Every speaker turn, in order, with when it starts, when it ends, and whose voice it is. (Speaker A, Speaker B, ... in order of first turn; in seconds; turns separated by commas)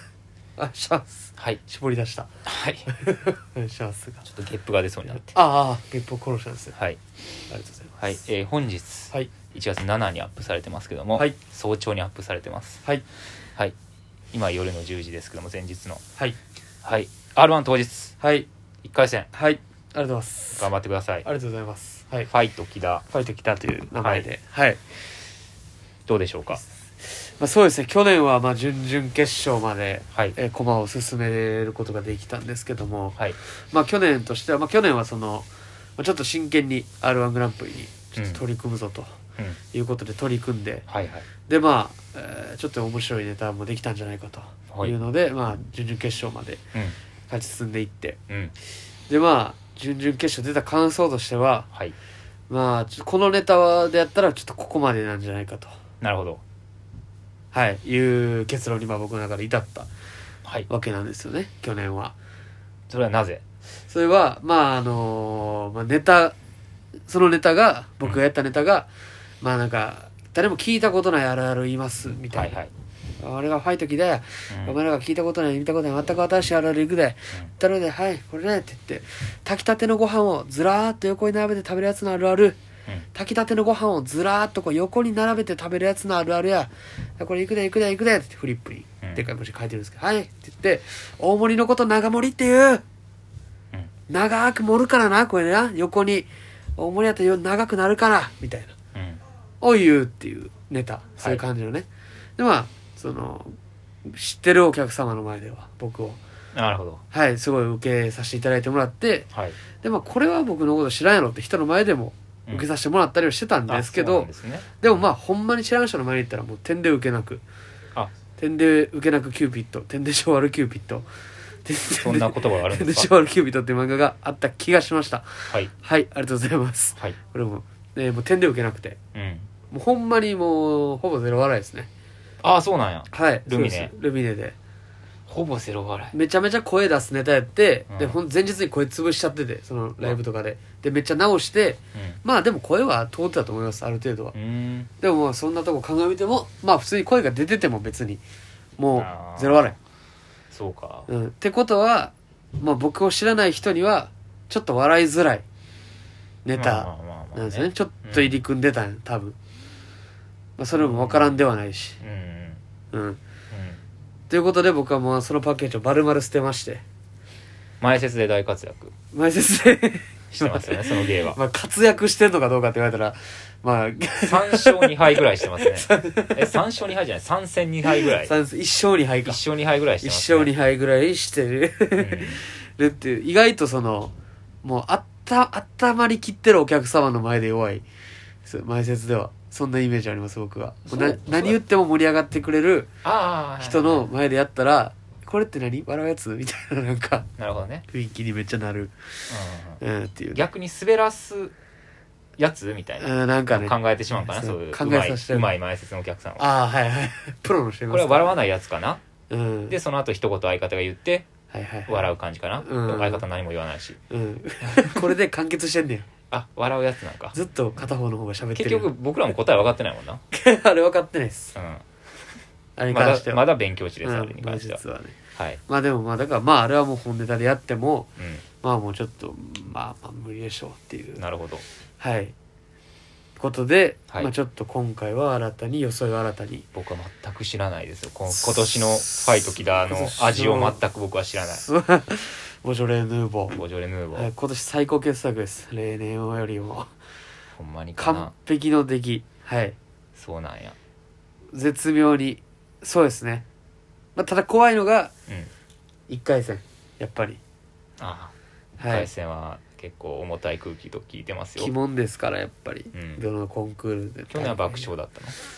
Speaker A: 0.6-2.3, Speaker B: 2.5-2.9, Speaker A: 2.9-4.2, Speaker B: 4.3-5.3, Speaker A: 5.2-6.8, Speaker A: 7.5-8.0, Speaker B: 8.0-12.8, Speaker B: 14.3-16.0, Speaker B: 16.8-18.2, Speaker A: 18.2-18.5, Speaker B: 18.8-19.3, Speaker A: 19.3-20.7, Speaker B: 20.6-21.3, Speaker A: 21.2-22.3, Speaker B: 22.3-23.1, Speaker A: 23.1-24.8, Speaker B: 24.0-24.3, Speaker B: 26.1-26.6, Speaker A: 27.0-33.2, Speaker A: 33.7-39.2, Speaker B: 38.2-38.4, Speaker A: 39.7-40.9, Speaker B: 40.9-41.3, Speaker A: 41.5-46.6, Speaker B: 44.7-45.0, Speaker A: 47.3-48.2, Speaker B: 48.3-48.5, Speaker A: 49.1-51.7, Speaker A: 52.5-55.7, Speaker B: 56.0-56.4, Speaker A: 57.5-59.9, Speaker A: 60.7-62.2, Speaker B: 62.9-63.4, Speaker A: 63.9-66.4, Speaker A: 67.1-68.9, Speaker A: 69.4-72.6, Speaker B: 72.3-72.7, Speaker A: 73.2-82.6, Speaker B: 74.5-74.8, Speaker A: 83.1-92.8, Speaker A: 94.1-98.7, Speaker B: 98.9-99.2, Speaker A: 99.6-101.9, Speaker B: 101.2-101.4, Speaker A: 102.4-103.5, Speaker A: 104.1-106.2, Speaker B: 106.5-107.0, Speaker A: 107.1-109.3, Speaker B: 109.3-109.6, Speaker A: 109.8-114.3, Speaker B: 113.7-114.9, Speaker A: 114.8-117.4, Speaker A: 118.3-121.1, Speaker A: 121.7-129.0, Speaker B: 122.0-123.1, Speaker B: 129.2-129.5, Speaker A: 129.7-131.9, Speaker B: 132.4-133.9, Speaker A: 133.1-134.6, Speaker B: 135.3-136.2, Speaker A: 136.1-144.3, Speaker B: 137.9-138.2, Speaker B: 141.9-142.2, Speaker B: 144.3-144.9, Speaker A: 145.0-148.2, Speaker A: 148.8-149.8, Speaker B: 148.9-149.7, Speaker B: 150.5-151.1, Speaker A: 151.1-155.4, Speaker A: 156.4-159.4, Speaker B: 156.5-158.4, Speaker A: 160.6-162.0, Speaker B: 160.7-161.4, Speaker B: 162.0-162.6, Speaker A: 162.9-163.2, Speaker B: 163.5-163.8, Speaker A: 164.3-166.8, Speaker B: 167.8-168.9, Speaker A: 169.1-176.6, Speaker B: 170.3-171.4, Speaker B: 174.3-178.3, Speaker A: 177.9-179.4, Speaker B: 179.2-180.5, Speaker A: 180.0-187.8, Speaker B: 182.0-182.4, Speaker A: 188.4-192.9, Speaker B: 190.9-191.6, Speaker B: 193.0-194.1, Speaker A: 193.6-197.3, Speaker B: 197.4-197.8, Speaker A: 197.9-198.9, Speaker B: 199.3-199.8, Speaker A: 199.8-200.4, Speaker B: 200.3-201.5, Speaker B: 202.4-206.5, Speaker A: 203.0-205.5, Speaker A: 206.4-208.4, Speaker B: 207.9-209.0, Speaker A: 209.3-209.8, Speaker B: 209.7-211.3, Speaker A: 211.5-212.1, Speaker B: 211.9-214.0, Speaker A: 212.6-213.2, Speaker A: 214.1-216.1, Speaker B: 216.3-217.4, Speaker A: 217.3-218.9, Speaker B: 218.6-220.2, Speaker A: 220.3-221.6, Speaker B: 221.6-221.8, Speaker A: 222.8-223.5, Speaker B: 222.9-224.8, Speaker A: 224.0-228.1, Speaker B: 225.4-225.6, Speaker B: 228.2-228.4, Speaker A: 228.6-231.2, Speaker B: 231.2-231.7, Speaker A: 232.0-232.3, Speaker A: 233.4-236.7, Speaker B: 236.7-241.6, Speaker A: 239.1-240.8, Speaker A: 241.4-243.6, Speaker B: 243.5-244.3, Speaker A: 244.1-246.9, Speaker B: 247.6-248.3, Speaker A: 248.0-249.8, Speaker B: 250.2-250.8, Speaker A: 251.5-253.4, Speaker A: 254.2-255.1, Speaker A: 256.1-257.4, Speaker B: 258.0-261.7, Speaker A: 258.8-259.1, Speaker A: 261.6-264.9, Speaker B: 262.9-263.2, Speaker B: 264.3-265.4